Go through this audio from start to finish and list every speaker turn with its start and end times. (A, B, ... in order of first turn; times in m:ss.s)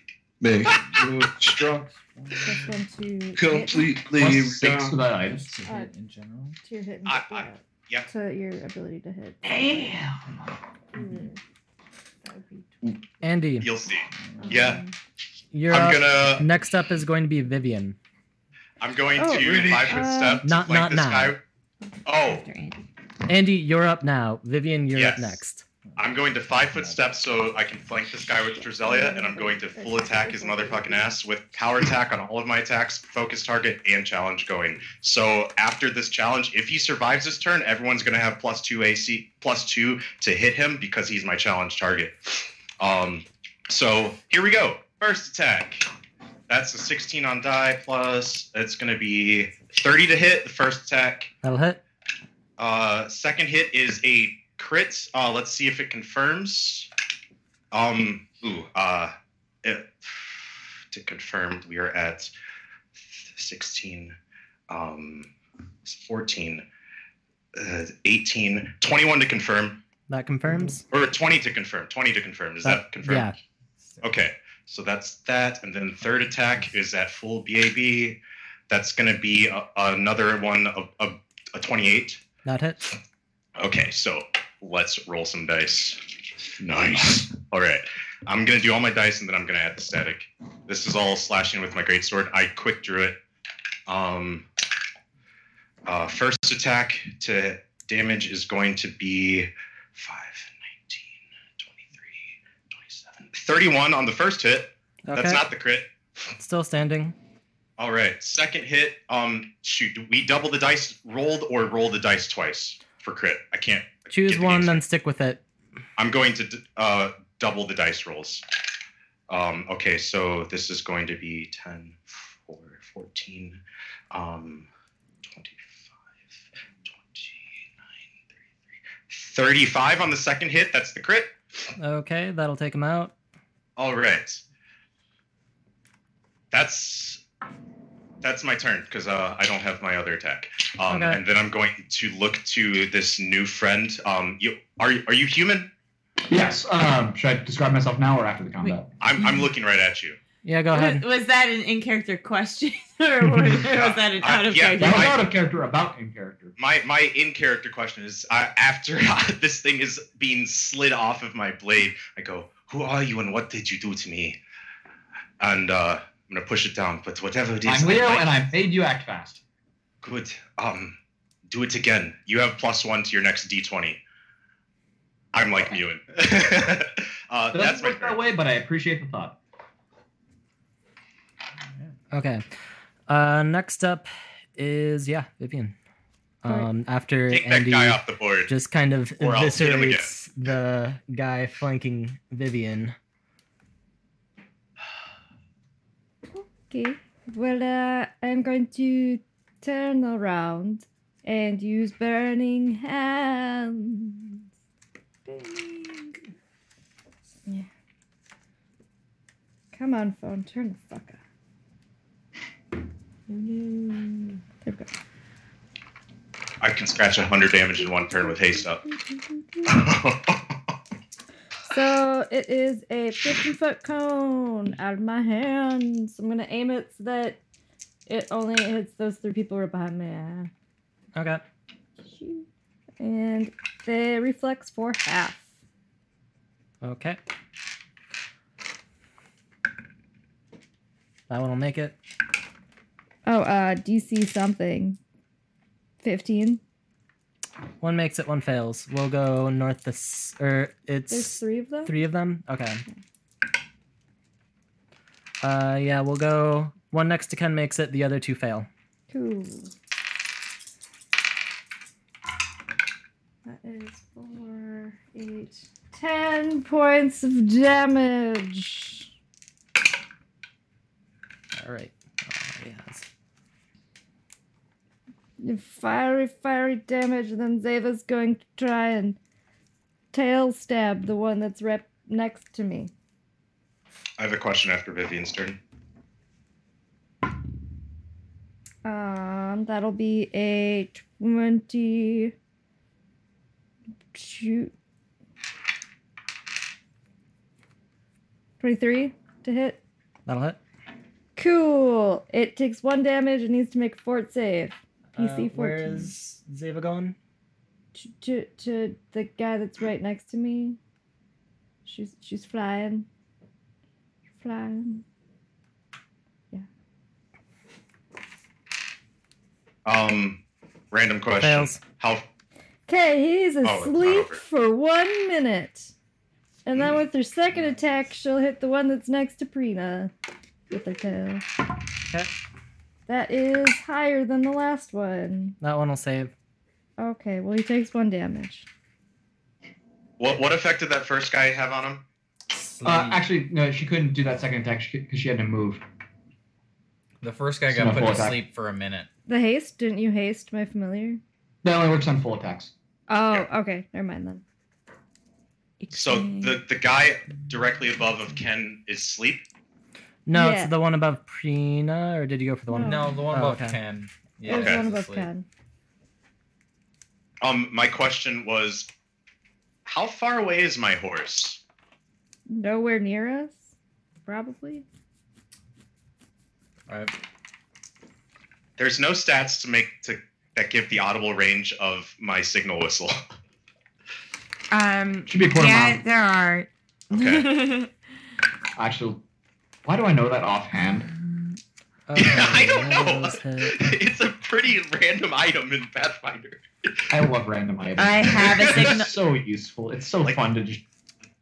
0:00.4-0:01.9 A
0:00.7-0:02.8 B
0:02.4-0:03.9 C
0:03.4-0:05.0 A
0:04.2-0:05.5 D
0:05.1-0:06.6 B
0:05.7-0:05.9 C
0:06.6-0:09.7 C
0:07.1-0:08.1 E
0:09.4-0:10.4 D
0:11.0-0:11.4 C
0:11.0-0:11.3 B
0:12.2-0:13.0 C
0:13.2-0:13.7 F
0:13.6-0:14.8 E
0:14.4-0:14.9 C
0:15.5-0:18.0 F
0:15.7-0:16.5 E
0:18.8-0:21.4 E
0:19.2-0:20.5 C
0:20.4-0:21.4 F
0:22.1-0:22.5 E
0:22.1-0:22.8 G
0:23.3-0:25.6 F
0:24.9-0:25.4 E
0:25.9-0:27.0 B
0:26.0-0:45.9 E
0:28.6-0:31.2 C
0:46.5-0:51.3 E
0:51.4-0:51.8 F
0:52.6-0:56.9 E
0:57.7-1:02.3 E
1:03.0-1:04.2 E
1:04.7-1:05.3 E
1:05.8-1:06.6 E
1:07.6-1:09.8 E
1:10.1-1:10.8 F
1:10.9-1:13.3 E
1:12.6-1:13.4 F
1:14.0-1:22.2 E
1:22.4-1:22.8 F
1:23.6-1:26.0 E
1:26.6-1:33.2 E
1:33.9-1:34.5 E
1:35.8-1:45.9 E
1:45.1-1:45.5 F
1:46.4-1:47.2 F
1:47.8-1:54.8 E
1:54.1-1:55.4 F
1:56.0-1:58.4 E
1:59.3-2:04.7 E
2:05.2-2:05.9 E
2:06.8-2:07.7 E
2:09.1-2:11.3 E
2:11.8-2:13.1 F
2:13.8-2:14.4 E
2:16.5-2:17.2 E
2:18.2-2:25.7 E
2:20.9-2:21.2 F
2:26.3-2:29.0 D
2:28.6-2:29.4 G
2:29.0-2:30.2 E
2:30.4-2:31.0 F
2:30.7-2:35.2 G
2:33.6-2:35.3 E
2:34.8-2:36.5 D
2:36.6-2:44.4 E
2:45.4-2:48.4 E
2:47.6-2:49.4 D
2:50.0-2:51.0 E
2:51.5-2:54.0 E
2:55.3-2:58.2 E
2:57.5-2:59.4 D
3:02.1-3:02.4 F
3:03.1-3:05.8 F
3:06.4-3:13.0 F
3:07.3-3:08.5 E
3:09.2-3:10.1 E
3:16.3-3:24.4 C
3:25.3-3:26.2 G
3:29.7-3:31.2 C
3:33.3-3:34.4 G
3:36.6-3:38.8 E
3:38.1-3:39.7 C
3:39.7-3:40.7 E
3:41.7-3:47.4 C
3:48.1-3:50.5 C
3:51.2-3:51.4 F
3:52.0-3:52.5 C
3:53.0-3:55.5 C
3:56.8-3:57.2 F
4:01.3-4:02.0 F
4:03.2-4:05.0 C
4:06.0-4:06.6 C
4:07.8-4:12.8 F
4:11.1-4:12.0 C
4:15.4-4:18.7 F
4:19.1-4:19.7 C
4:23.4-4:29.1 C
4:31.5-4:33.1 F
4:35.4-4:39.2 C
4:40.1-4:42.9 C
4:44.2-4:45.6 E
4:48.8-4:52.3 C
4:54.1-4:54.7 C
4:58.6-4:59.8 C
5:00.3-5:00.6 F
5:01.4-5:06.1 C
5:05.2-5:07.2 F
5:08.0-5:10.8 C
5:11.8-5:13.1 C
5:14.4-5:15.0 C
5:19.8-5:22.3 E
5:21.4-5:21.8 F
5:22.9-5:25.9 C
5:23.6-5:24.4 E
5:26.7-5:30.1 C
5:30.7-5:31.4 C
5:33.1-5:35.6 C
5:35.6-5:36.3 F
5:37.0-5:38.7 C
5:40.2-5:42.0 E
5:42.5-5:43.3 B
5:42.8-5:45.8 D
5:47.2-5:49.1 B
5:47.7-5:48.4 D
5:49.3-5:51.2 C
5:51.6-5:52.7 D
5:53.1-5:54.4 C
5:55.8-5:56.6 G
5:55.9-5:59.4 E
6:00.3-6:03.8 F
6:00.3-6:00.7 C
6:02.7-6:03.2 C
6:02.8-6:05.3 B
6:04.4-6:05.5 C
6:04.5-6:04.9 E
6:07.4-6:08.9 E
6:09.9-6:11.6 E
6:12.5-6:13.6 C
6:14.3-6:14.8 C
6:16.9-6:17.1 B
6:18.8-6:23.2 E
6:24.7-6:27.9 G
6:25.3-6:26.0 D
6:27.1-6:27.5 E
6:28.8-6:29.2 D
6:29.8-6:31.1 D
6:32.1-6:33.9 F
6:32.2-6:36.6 E
6:37.1-6:40.8 D
6:38.0-6:39.2 G